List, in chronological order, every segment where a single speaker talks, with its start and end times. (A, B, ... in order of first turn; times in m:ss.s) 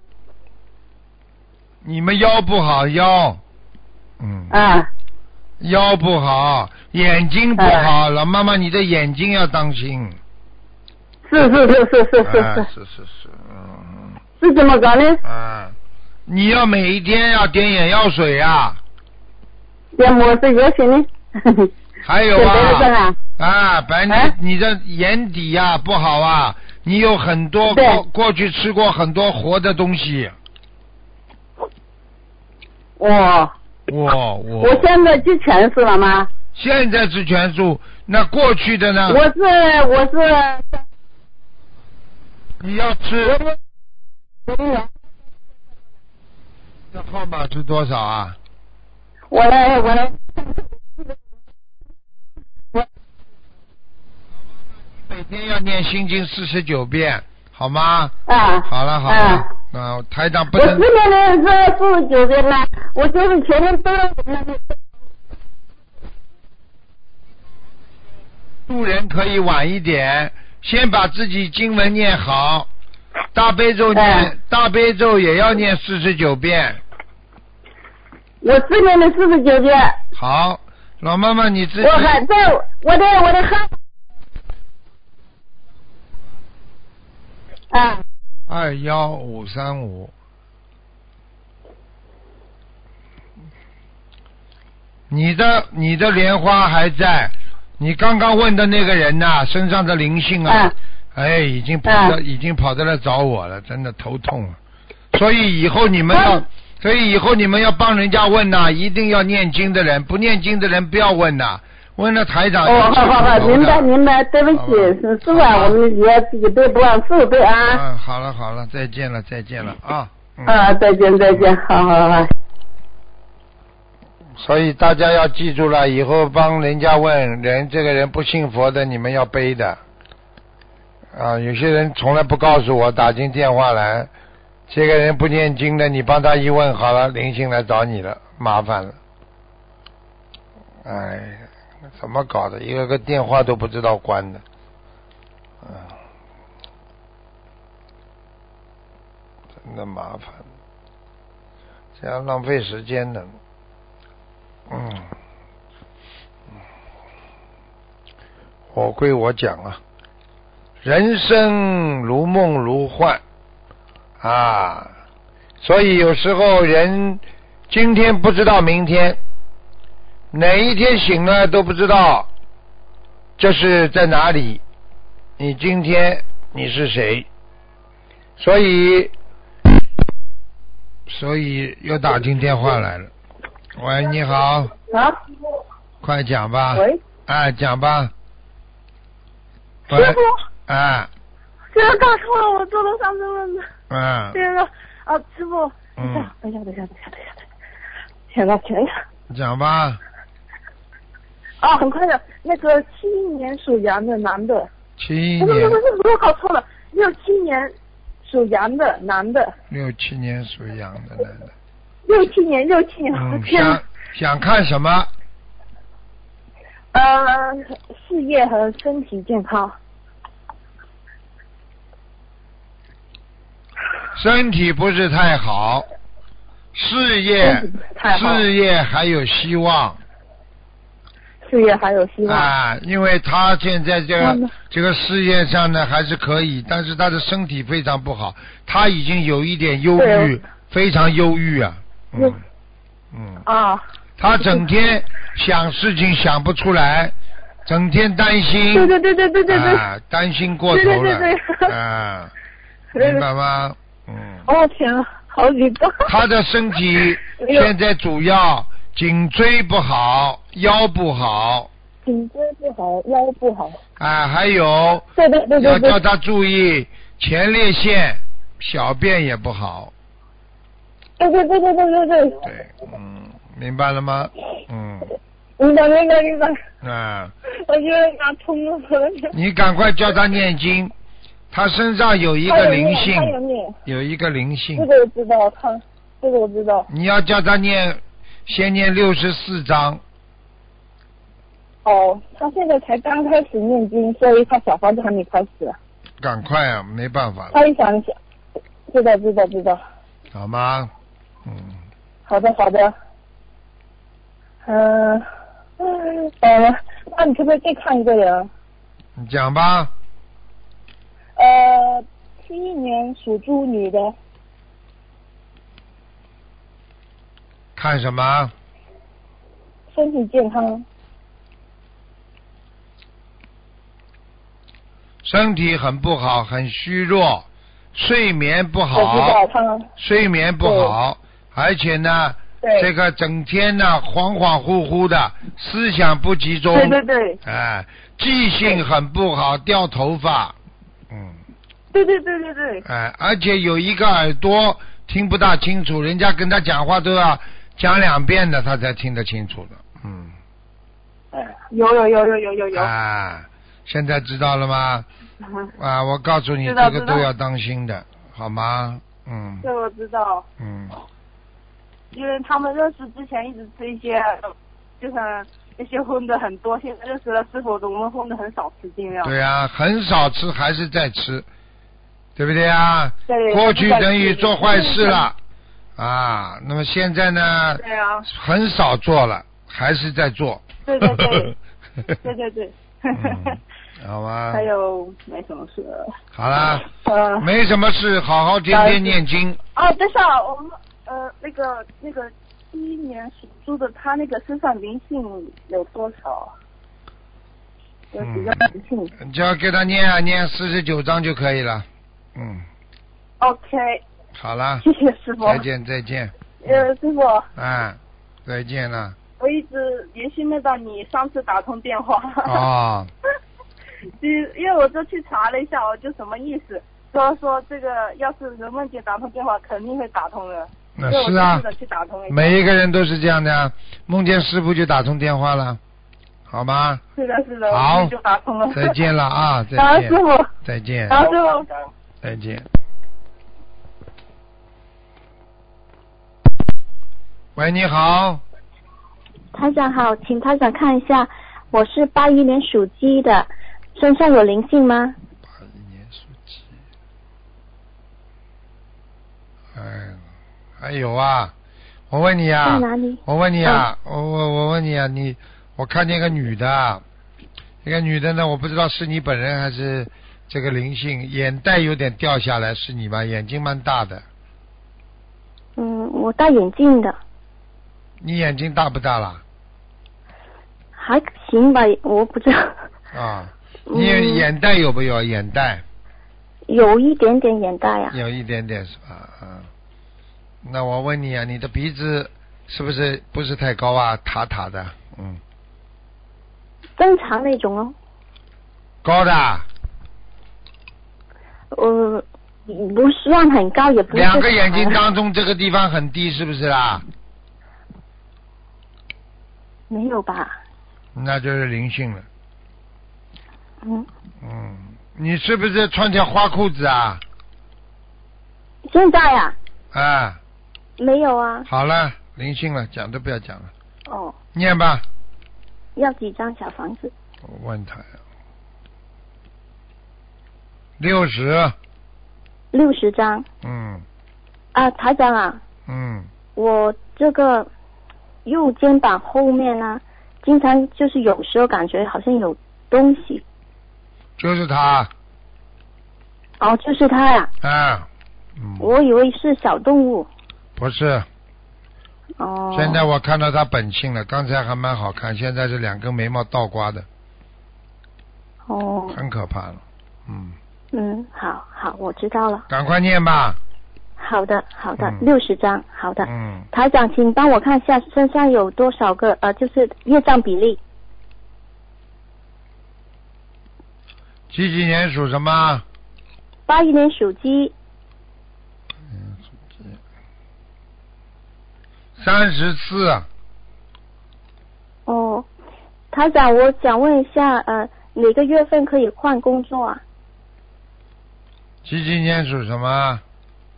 0:01.8-0:03.4 A
0:04.2-0:04.6 A
0:04.5-0:04.9 B
0:05.6-0:10.2 A
0:07.6-0:07.9 B
0:11.3-0:12.6 B
0:12.2-0:14.2 A
0:14.4-0:15.2 B
0:15.2-0:15.8 A
0:16.3-0:18.8 A
0:20.0-0:21.7 B
0:22.0-0:30.4 A
0:22.3-0:23.2 B
0:27.7-0:28.0 B
0:33.0-0:33.5 B
0:33.9-0:34.9 A
0:34.6-0:36.3 B
0:36.5-0:39.2 A
0:39.1-0:40.8 B
0:42.6-0:43.4 A
0:43.2-0:43.6 B
0:44.4-0:44.9 B
0:46.9-0:48.4 A
0:49.3-0:51.1 B
0:54.6-1:00.8 A
0:58.3-0:59.4 B
1:00.6-1:04.8 B
1:08.6-1:12.7 A
1:13.3-1:16.8 A
1:13.9-1:14.3 B
1:18.4-1:20.0 B
1:20.2-1:22.1 A
1:21.8-1:23.7 B
1:27.7-1:28.0 B
1:28.5-1:30.1 A
1:35.1-1:44.6 A
1:40.5-1:40.7 B
1:41.9-1:42.1 B
1:45.1-1:53.9 A
1:46.1-1:46.4 B
1:52.6-1:57.8 B
1:54.5-1:55.8 A
1:57.7-2:00.6 A
2:00.4-2:02.3 B
2:04.4-2:09.8 A
2:11.1-2:14.1 A
2:14.7-2:19.0 A
2:20.8-2:24.4 A
2:25.6-2:25.9 A
2:29.6-2:30.4 A
2:32.0-2:33.4 A
2:34.7-2:35.1 A
2:38.7-2:39.8 A
2:40.8-2:43.2 A
2:44.2-2:44.9 A
2:45.6-2:49.2 A
2:50.3-2:52.3 A
2:53.4-2:54.6 A
2:55.4-2:57.2 A
2:58.4-2:59.1 A
3:01.1-3:03.1 A
3:03.8-3:04.7 A
3:04.9-3:05.2 C
3:06.0-3:08.1 A
3:06.7-3:07.0 C
3:09.9-3:11.1 A
3:09.9-3:10.3 C
3:11.7-3:13.7 C
3:13.9-3:14.4 A
3:14.3-3:17.4 C
3:16.0-3:16.3 A
3:18.3-3:18.9 C
3:19.3-3:20.0 A
3:21.6-3:24.7 C
3:25.0-3:25.8 A
3:25.4-3:27.7 C
3:28.2-3:29.5 C
3:29.7-3:31.5 A
3:32.1-3:33.8 C
3:33.1-3:35.1 A
3:36.9-3:39.8 C
3:44.1-3:45.9 A
3:46.7-3:50.0 A
3:47.4-3:48.4 C
3:51.4-3:52.5 C
3:52.2-4:02.4 A
3:54.2-3:54.5 C
4:00.0-4:00.4 C
4:02.1-4:02.4 C
4:03.1-4:03.4 A
4:03.4-4:03.8 C
4:04.2-4:07.1 A
4:07.6-4:08.9 A
4:08.7-4:09.8 C
4:09.5-4:12.3 A
4:10.7-4:11.7 C
4:13.0-4:13.2 C
4:13.0-4:14.4 A
4:14.4-4:16.1 C
4:16.0-4:21.7 A
4:17.2-4:17.7 C
4:22.0-4:23.8 C
4:24.0-4:25.0 A
4:25.2-4:26.0 C
4:25.6-4:29.9 A
4:31.2-4:32.4 C
4:32.4-4:35.1 A
4:35.6-4:36.6 C
4:36.8-4:37.3 A
4:37.7-4:39.3 C
4:39.3-4:40.9 A
4:41.5-4:44.9 A
4:42.5-4:43.8 C
4:44.8-4:46.9 C
4:46.9-4:50.0 A
4:51.8-4:55.8 C
4:56.2-4:57.6 A
4:57.5-4:58.2 C
4:58.9-4:59.8 C
5:00.3-5:00.9 A
5:01.4-5:01.8 A
5:02.2-5:02.9 C
5:04.6-5:05.2 C
5:05.8-5:08.5 C
5:09.2-5:09.9 A
5:11.4-5:14.1 C
5:17.8-5:18.5 A
5:19.9-5:20.8 C
5:25.2-5:29.4 A
5:28.9-5:29.9 C
5:30.0-5:40.6 A
5:30.6-5:30.9 C
5:32.6-5:32.9 C
5:36.7-5:37.4 C
5:41.1-5:41.4 A
5:41.9-5:42.8 C
5:42.8-5:50.3 A
5:51.3-5:52.9 C
5:52.7-5:55.1 A
5:55.8-5:59.7 A
5:56.6-5:57.3 C
5:59.6-6:00.4 C
6:00.6-6:01.0 A
6:02.1-6:09.3 C
6:09.2-6:11.5 A
6:12.4-6:15.3 A
6:13.3-6:15.3 C
6:16.0-6:21.5 A
6:17.8-6:18.2 C
6:20.8-6:21.5 C
6:22.1-6:23.6 C
6:23.1-6:24.7 A
6:24.5-6:26.1 C
6:26.3-6:26.8 A
6:26.6-6:27.5 C
6:27.4-6:29.6 A
6:28.7-6:29.2 C
6:29.8-6:36.5 C
6:38.1-6:39.1 C
6:38.2-6:42.7 A
6:43.4-6:44.0 C
6:44.3-6:44.8 A
6:44.8-6:45.6 C
6:45.4-6:46.8 A
6:46.6-6:47.5 C
6:47.5-6:49.2 A
6:49.4-6:52.6 C
6:52.4-6:53.1 A
6:54.2-7:02.6 C
7:01.0-7:01.7 A
7:02.3-7:05.8 A
7:06.5-7:07.0 A
7:07.2-7:09.0 C
7:07.7-7:08.1 A
7:08.7-7:11.2 A
7:09.8-7:10.5 C
7:11.1-7:11.7 C
7:12.2-7:12.7 A
7:17.5-7:18.4 A
7:19.5-7:25.1 D
7:25.5-7:26.6 A
7:29.7-7:30.2 A
7:30.8-7:31.5 A
7:32.1-7:37.0 A
7:32.6-7:33.8 D
7:37.8-7:44.2 A
7:45.8-7:47.2 D
7:48.2-7:49.4 A
7:51.0-7:52.8 D
7:53.1-7:55.8 A
7:53.9-7:54.4 D
7:56.7-7:58.2 D
7:58.1-7:59.7 A
8:00.6-8:05.4 A
8:07.0-8:08.0 D
8:09.0-8:09.6 A
8:11.7-8:15.0 D
8:14.1-8:17.0 A
8:19.9-8:20.6 D
8:21.1-8:22.2 A
8:23.8-8:24.1 D
8:24.4-8:27.2 A
8:28.9-8:29.6 D
8:29.9-8:30.4 A
8:31.0-8:31.7 D
8:31.7-8:33.7 A
8:34.1-8:34.3 D
8:34.5-8:35.0 A
8:36.0-8:37.1 D
8:37.4-8:38.0 A
8:41.0-8:41.8 A
8:42.7-8:43.4 D
8:43.6-8:44.0 A
8:44.7-8:45.6 D
8:45.9-8:46.3 A
8:46.6-8:47.7 D
8:48.4-8:53.4 D
8:54.4-8:55.1 A
8:56.6-8:57.5 D
8:57.6-8:58.9 A
8:58.8-9:00.3 D
9:00.8-9:01.2 A
9:02.4-9:03.0 D
9:02.7-9:07.0 A
9:08.7-9:09.2 D
9:09.1-9:10.6 A
9:10.9-9:12.6 D
9:12.7-9:13.6 A
9:14.2-9:20.8 D
9:15.0-9:15.3 A
9:16.2-9:16.7 A
9:24.5-9:25.8 A
9:26.7-9:27.7 D
9:29.1-9:30.0 A
9:32.2-9:33.3 A
9:35.0-9:35.5 D
9:36.1-9:40.0 D
9:41.8-9:43.2 A